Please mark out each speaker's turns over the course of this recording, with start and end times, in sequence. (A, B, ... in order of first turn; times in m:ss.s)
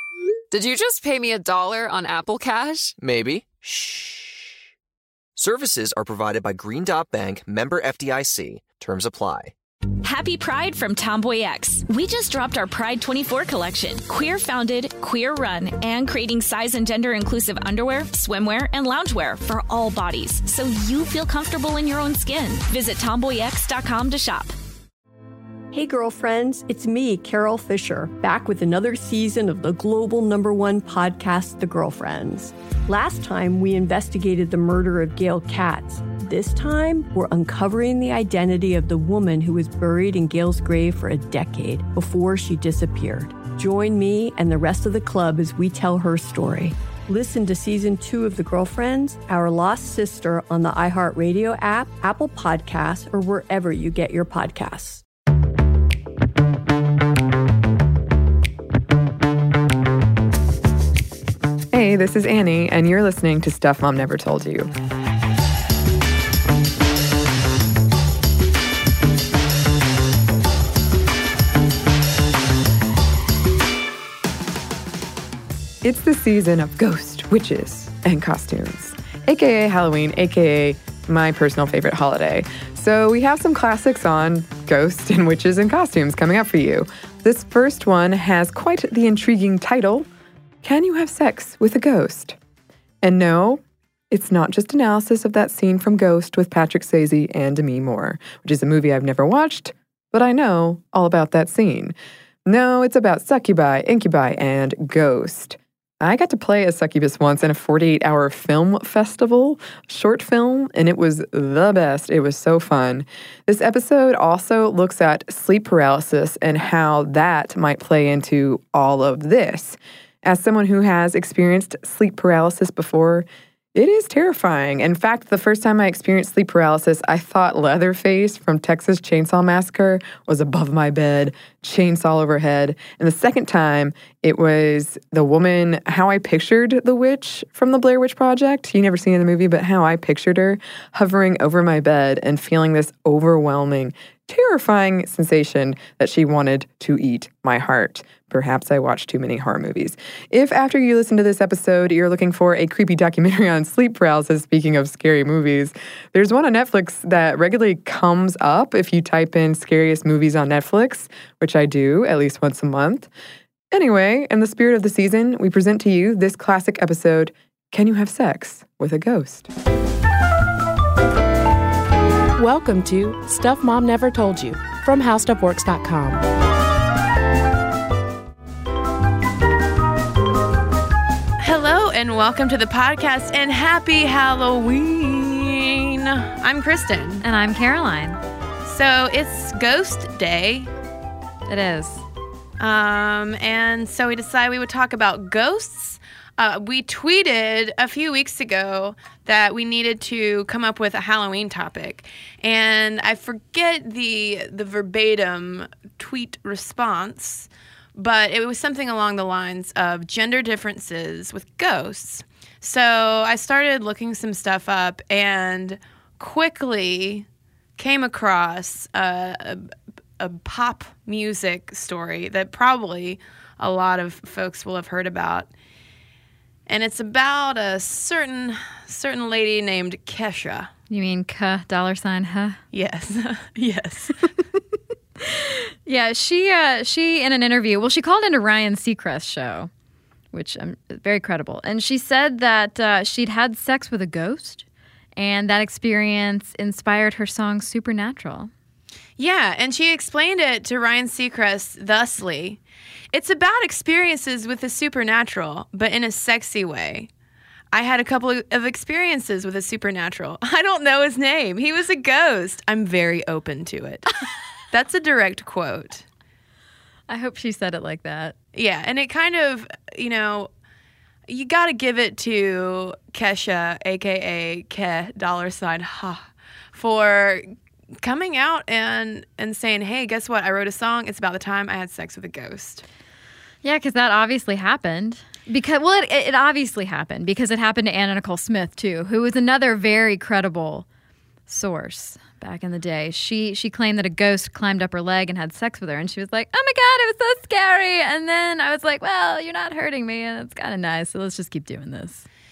0:00.5-0:03.0 A
0:03.0-0:04.4 B
0:05.4-0:09.5 B
0:10.0-0:24.5 C
0:25.7-0:55.0 D
1:01.7-1:04.7 E
1:15.8-1:30.1 E
1:30.6-1:32.4 E
1:33.0-1:41.9 E
1:42.5-2:43.1 E
2:43.7-2:49.5 E
2:52.4-2:56.2 F
3:01.4-3:07.2 G
3:07.2-3:08.2 H
3:08.6-3:10.7 G
3:11.5-3:12.0 H
3:12.6-3:37.2 G
3:37.8-3:45.5 G
3:46.7-3:50.7 G
3:50.9-3:52.6 H
3:52.7-3:54.2 G
3:55.2-3:59.7 H
4:00.3-4:04.6 H
4:05.2-4:08.5 H
4:09.2-4:12.6 G
4:13.1-4:17.1 G
4:17.7-4:24.1 G
4:24.7-4:26.0 G
4:27.1-4:28.4 H
4:28.5-4:30.5 G
4:31.3-4:37.5 G
4:38.0-4:42.8 G
4:43.6-4:50.9 H
4:51.5-5:02.3 H